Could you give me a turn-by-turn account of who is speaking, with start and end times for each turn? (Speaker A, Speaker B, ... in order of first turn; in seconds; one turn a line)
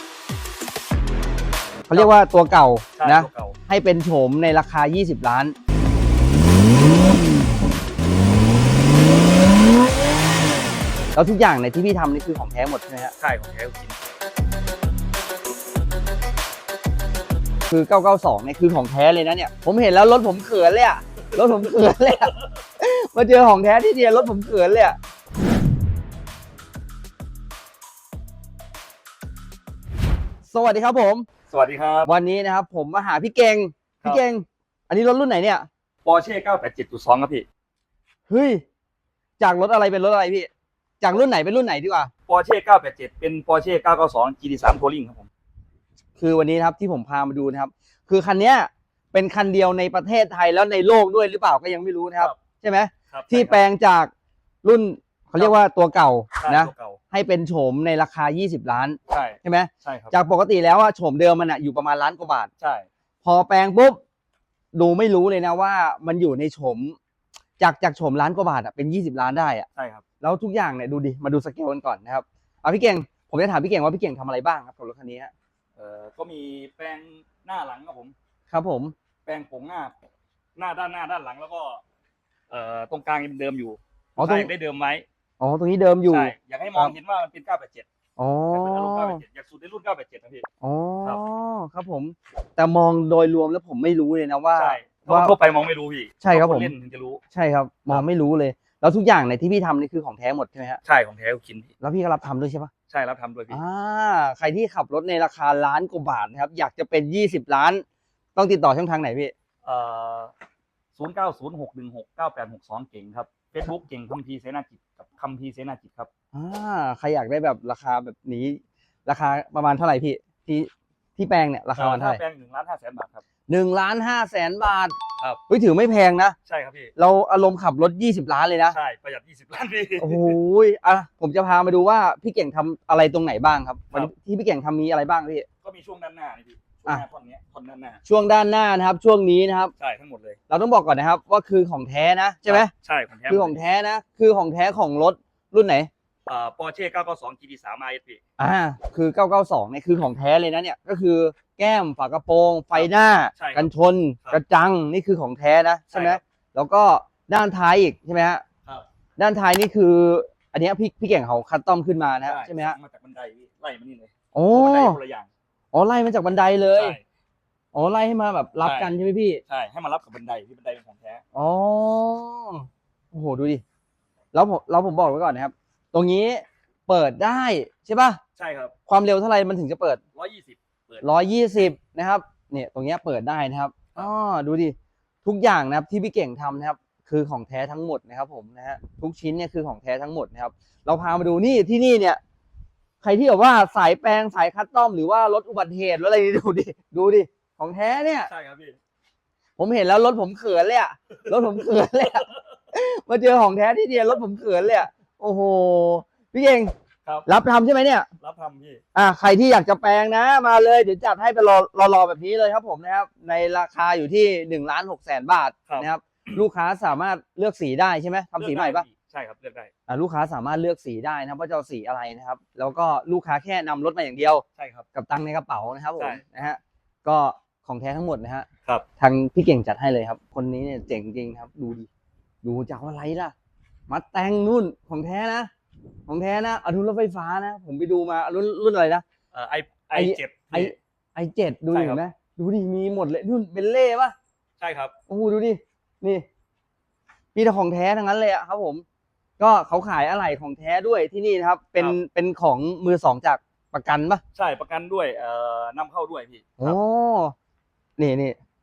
Speaker A: 1.9-5.5
Speaker B: 3.0-3.5
Speaker A: 11.1-13.1
Speaker B: 13.2-14.0
Speaker A: 17.7-25.0
Speaker A: 30.5-31.3
Speaker B: 31.5-32.1
Speaker A: 32.0-35.7
Speaker B: 36.0-37.5
Speaker A: 38.3-38.6
Speaker A: 39.4-40.5
Speaker A: 41.0-42.1
Speaker B: 42.3-45.3
Speaker A: 46.2-54.1
Speaker B: 53.1-53.6
Speaker A: 54.6-62.5
Speaker B: 56.4-57.0
Speaker B: 59.1-60.1
Speaker B: 62.6-62.9
Speaker A: 63.2-64.0
Speaker A: 64.7-67.0
Speaker A: 67.6-69.7
Speaker B: 69.8-70.0
Speaker A: 70.2-75.3
Speaker B: 75.8-78.1
Speaker A: 78.5-78.9
Speaker B: 79.2-79.9
Speaker B: 80.5-81.8
Speaker B: 82.5-85.0
Speaker A: 84.2-84.5
Speaker A: 85.4-86.9
Speaker B: 86.1-87.8
Speaker A: 88.2-89.2
Speaker B: 88.5-90.4
Speaker A: 90.6-95.3
Speaker B: 94.5-97.2
Speaker A: 96.2-96.7
Speaker A: 97.3-100.8
Speaker B: 100.8-101.7
Speaker A: 101.8-102.7
Speaker B: 102.9-103.6
Speaker A: 103.5-107.8
Speaker A: 108.3-109.3
Speaker B: 109.6-110.3
Speaker B: 111.0-116.1
Speaker A: 116.3-122.2
Speaker B: 121.7-123.2
Speaker A: 123.5-125.0
Speaker A: 125.5-126.4
Speaker B: 126.5-126.9
Speaker A: 127.0-128.8
Speaker B: 128.7-130.4
Speaker A: 130.0-135.5
Speaker B: 135.6-138.0
Speaker A: 138.0-139.7
Speaker B: 139.8-140.4
Speaker A: 140.5-142.7
Speaker B: 142.4-143.6
Speaker A: 143.3-145.9
Speaker B: 146.3-148.2
Speaker A: 148.4-158.4
Speaker B: 152.7-153.7
Speaker B: 155.9-156.2
Speaker A: 159.2-162.8
Speaker B: 162.2-165.3
Speaker A: 164.3-165.0
Speaker A: 165.7-167.0
Speaker B: 166.7-167.0
Speaker A: 167.7-169.4
Speaker B: 168.6-168.9
Speaker B: 169.5-171.2
Speaker A: 171.3-173.6
Speaker A: 174.3-178.2
Speaker B: 178.4-178.7
Speaker A: 178.9-180.0
Speaker B: 180.1-181.1
Speaker A: 181.0-192.2
Speaker A: 193.0-198.3
Speaker B: 198.3-198.8
Speaker A: 199.6-206.7
Speaker B: 201.2-201.6
Speaker B: 202.2-202.4
Speaker A: 207.2-208.1
Speaker B: 208.2-208.8
Speaker A: 208.9-218.8
Speaker B: 215.7-216.4
Speaker B: 218.4-219.7
Speaker A: 219.9-228.5
Speaker B: 224.6-224.8
Speaker B: 226.0-226.2
Speaker A: 229.0-231.9
Speaker A: 232.4-233.3
Speaker A: 233.9-235.5
Speaker A: 236.1-239.0
Speaker B: 239.3-240.7
Speaker A: 239.9-244.1
Speaker B: 241.7-242.0
Speaker B: 244.6-244.9
Speaker A: 245.1-246.2
Speaker A: 247.3-248.8
Speaker A: 249.4-254.2
Speaker B: 254.3-256.8
Speaker A: 256.6-257.3
Speaker A: 258.0-258.4